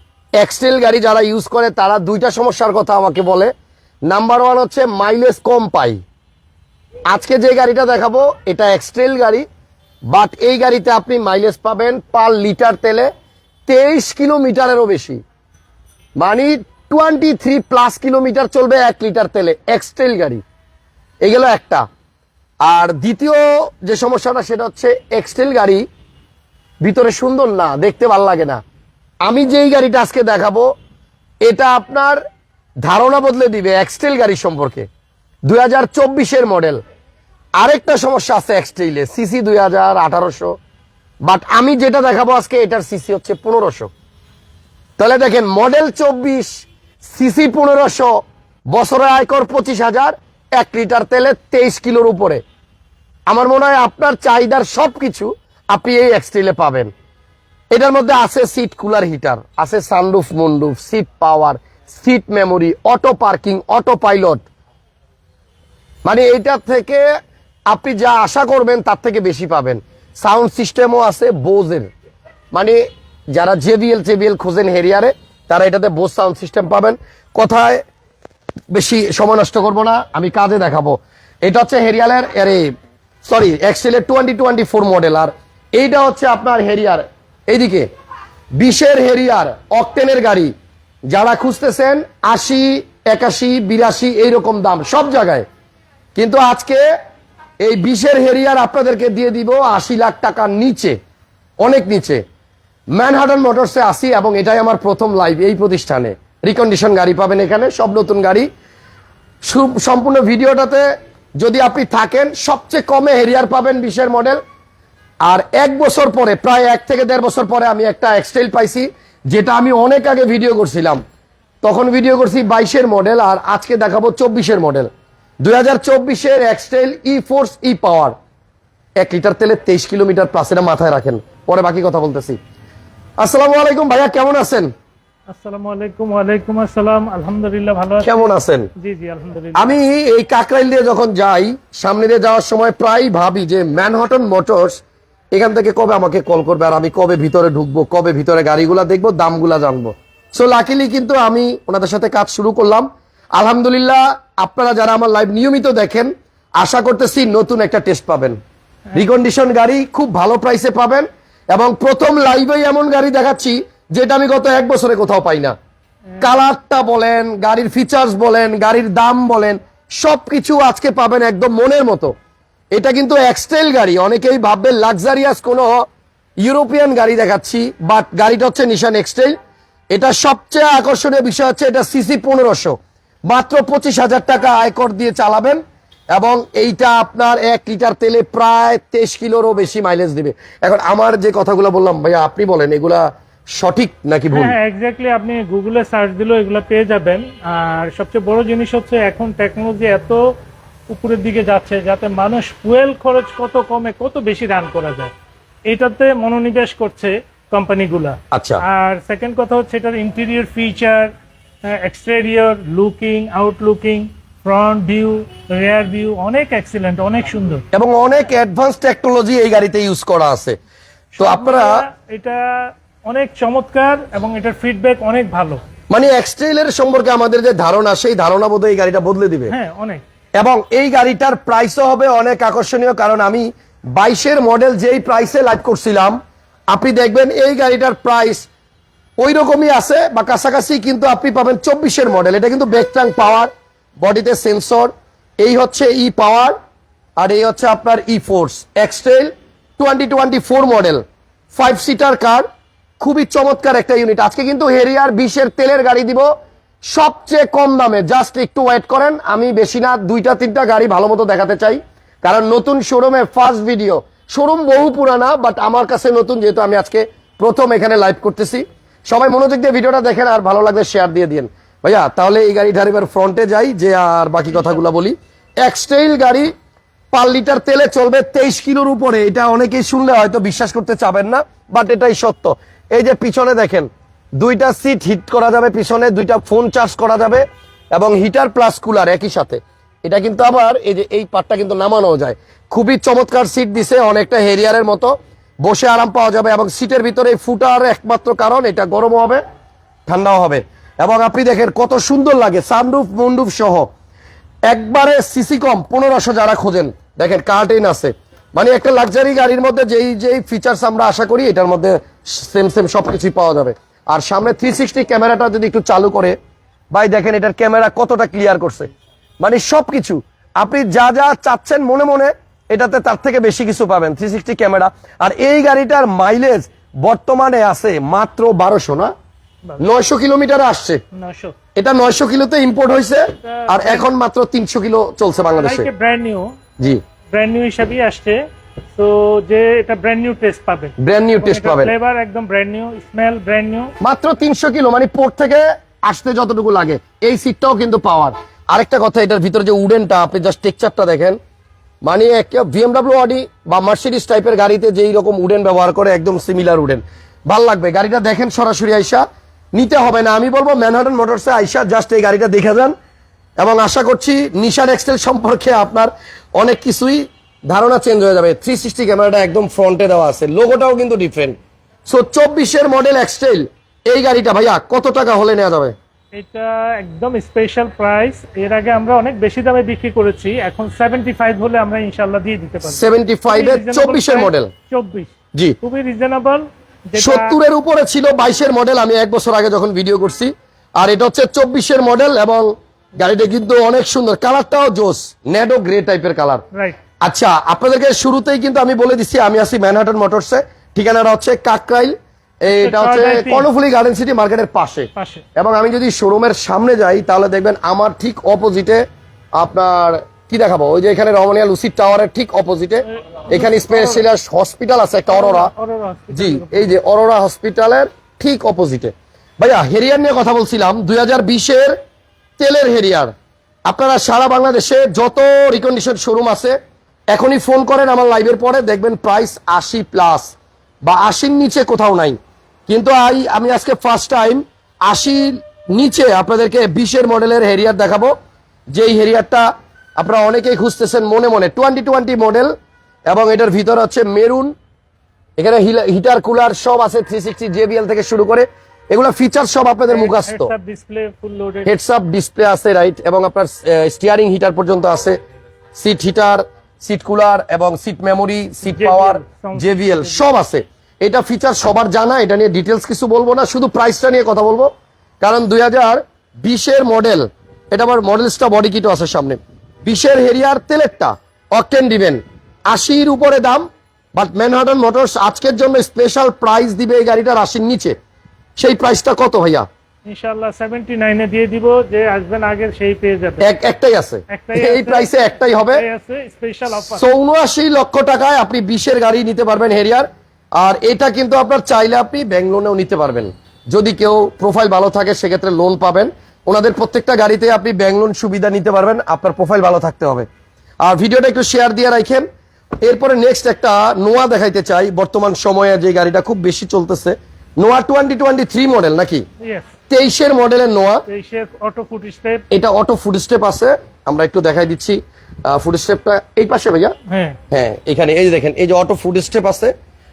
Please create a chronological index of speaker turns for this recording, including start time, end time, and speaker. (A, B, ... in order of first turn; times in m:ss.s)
0:00.4-0:03.5 A
0:04.1-0:06.0 A
0:07.1-0:09.5 A
0:10.1-0:13.1 A
0:13.7-0:15.2 A
0:16.2-0:20.4 A
0:21.2-0:21.9 A
0:22.6-0:25.9 A
0:26.8-0:28.6 A
0:29.2-0:30.7 A
0:31.4-0:32.2 A
0:32.8-0:34.9 A
0:35.5-0:36.8 A
0:37.6-0:40.6 A
0:41.3-0:43.9 A
0:45.0-0:52.4 A
0:53.3-0:56.9 A
0:57.7-1:04.5 A
1:06.1-1:07.1 A
1:07.7-1:11.9 A
1:12.5-1:12.8 A
1:13.3-1:17.8 A
1:18.7-1:22.7 A
1:23.2-1:27.9 A
1:28.6-1:30.5 A
1:31.1-1:35.5 A
1:36.2-1:36.8 A
1:37.6-1:41.0 A
1:41.6-1:42.2 A
1:42.9-1:48.5 A
1:49.4-1:54.4 A
1:55.3-2:01.0 A
2:01.6-2:04.9 A
2:05.4-2:08.2 A
2:09.0-2:12.4 A
2:13.2-2:14.7 A
2:15.3-2:18.3 B
2:18.0-2:18.7 A
2:18.8-2:19.8 B
2:19.6-2:24.8 A
2:25.3-2:38.4 A
2:38.9-2:45.6 A
2:46.2-2:52.1 A
2:52.7-2:55.9 A
2:56.4-2:59.4 A
2:59.9-3:02.8 A
3:03.3-3:05.6 A
3:06.1-3:14.5 A
3:14.3-3:20.2 B
3:20.9-3:25.1 B
3:25.7-3:31.1 B
3:28.3-3:28.6 A
3:31.6-3:37.6 B
3:37.7-3:40.6 A
3:41.1-3:45.6 B
3:41.2-3:41.8 A
3:45.9-3:49.6 A
3:49.5-3:50.0 B
3:50.4-3:56.2 A
3:56.7-3:58.5 A
3:59.2-4:06.6 A
4:07.2-4:11.0 A
4:11.6-4:12.5 A
4:13.0-4:16.3 A
4:16.9-4:36.5 A
4:37.1-4:59.4 A
5:00.1-5:03.9 A
5:04.7-5:16.4 A
5:16.9-5:29.1 A
5:29.8-5:31.0 A
5:31.1-5:31.6 B
5:31.8-5:35.9 A
5:33.4-5:34.1 B
5:35.6-5:36.5 B
5:37.3-5:38.4 B
5:39.0-5:43.9 B
5:41.0-5:41.9 A
5:44.0-5:51.4 A
5:52.0-6:02.9 A
6:03.6-6:16.0 A
6:16.3-6:25.3 B
6:22.8-6:24.7 A
6:25.8-6:27.6 B
6:27.2-6:36.6 A
6:37.2-6:49.0 A
6:42.8-6:43.7 B
6:45.2-6:45.4 B
6:49.6-6:55.7 A
6:53.1-6:54.2 B
6:55.3-6:57.0 B
6:56.3-7:02.0 A
7:02.6-7:03.3 A
7:03.9-7:06.8 A
7:07.3-7:18.3 A
7:18.9-7:22.7 A
7:23.3-7:24.7 A
7:25.6-7:30.7 A
7:30.1-7:31.9 B
7:31.9-7:35.4 A
7:36.0-7:58.2 A
7:38.8-7:40.5 B
7:58.8-7:59.9 A
8:00.3-8:03.6 B
8:03.6-8:06.0 A
8:04.5-8:07.2 B
8:07.0-8:20.5 A
8:21.0-8:22.5 A
8:23.0-8:29.4 A
8:29.6-8:29.9 B
8:30.1-8:31.2 A
8:31.3-8:32.6 B
8:32.7-8:37.1 A
8:37.3-8:37.6 B
8:37.7-8:39.9 A